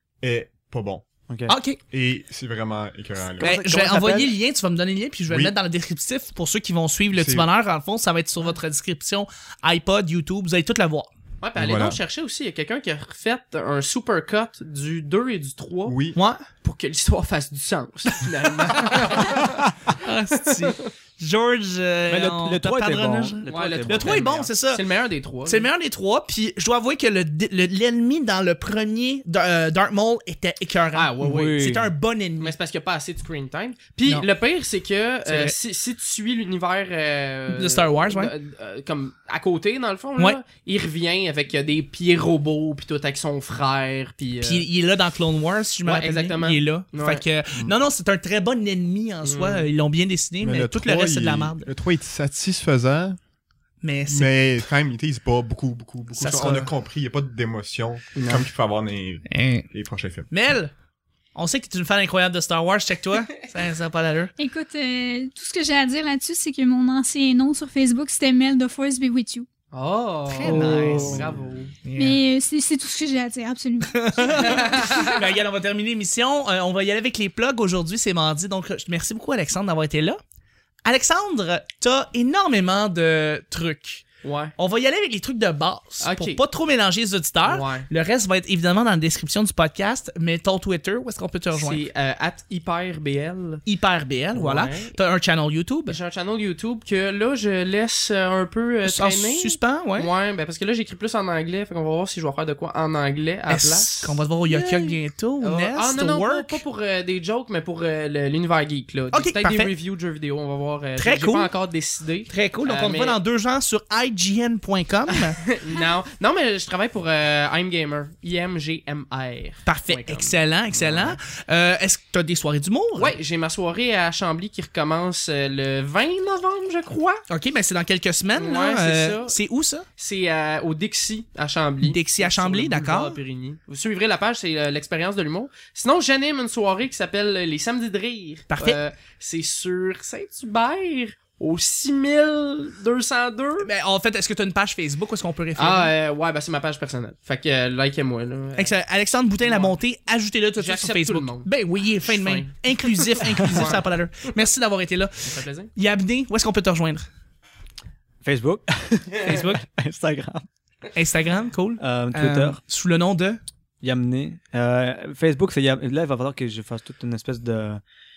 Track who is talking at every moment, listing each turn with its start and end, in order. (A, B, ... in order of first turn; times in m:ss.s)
0:00.2-0:01.1 A
0:01.3-0:01.6 B
0:01.5-0:01.8 C
0:01.8-0:03.6 A
0:03.4-0:04.4 B
0:03.4-0:11.1 C
0:05.3-0:05.6 A
0:07.2-0:07.5 A
0:11.4-0:16.0 D
0:11.6-0:12.0 A
0:15.9-0:16.2 A
0:16.2-0:16.4 C
0:16.6-0:19.6 D
0:19.9-0:24.8 C
0:20.5-0:20.9 D
0:22.1-0:24.3 B
0:23.5-0:25.7 D
0:25.4-0:32.5 C
0:30.9-0:31.6 D
0:31.2-0:31.9 B
0:32.4-0:44.7 D
0:35.3-0:35.6 C
0:37.5-0:38.3 C
0:44.4-0:51.7 C
0:45.9-0:47.2 D
0:49.2-0:49.7 D
0:50.4-0:53.2 A
0:53.8-0:54.3 C
0:54.1-1:00.3 A
0:56.2-0:56.7 C
0:59.3-0:59.7 C
1:00.3-1:00.7 C
1:01.4-1:04.3 C
1:04.4-1:09.5 E
1:09.7-1:11.8 D
1:10.3-1:11.2 C
1:10.4-1:11.3 B
1:11.8-1:12.2 C
1:12.0-1:15.1 E
1:13.8-1:20.2 C
1:14.5-1:15.1 D
1:20.8-1:24.0 C
1:24.2-1:24.6 D
1:24.6-1:31.8 C
1:26.0-1:26.4 D
1:27.4-1:27.9 D
1:31.5-1:33.6 D
1:33.7-1:36.0 C
1:34.3-1:35.0 D
1:35.9-1:53.2 D
1:38.8-1:40.1 C
1:43.5-1:46.6 C
1:49.1-1:49.7 C
1:51.0-1:51.5 C
1:52.3-1:55.4 C
1:55.4-2:00.4 D
1:59.7-2:03.2 C
2:00.7-2:01.2 A
2:03.0-2:07.2 D
2:07.3-2:09.8 C
2:08.4-2:09.4 D
2:10.0-2:23.7 D
2:11.8-2:13.2 C
2:18.5-2:18.8 C
2:23.6-2:25.9 C
2:25.6-2:28.8 D
2:28.6-2:37.1 C
2:29.4-2:29.8 D
2:30.6-2:33.9 D
2:35.2-2:35.7 D
2:38.2-2:40.5 B
2:39.2-2:39.6 C
2:41.0-2:43.4 C
2:41.8-2:42.6 B
2:43.8-2:47.8 B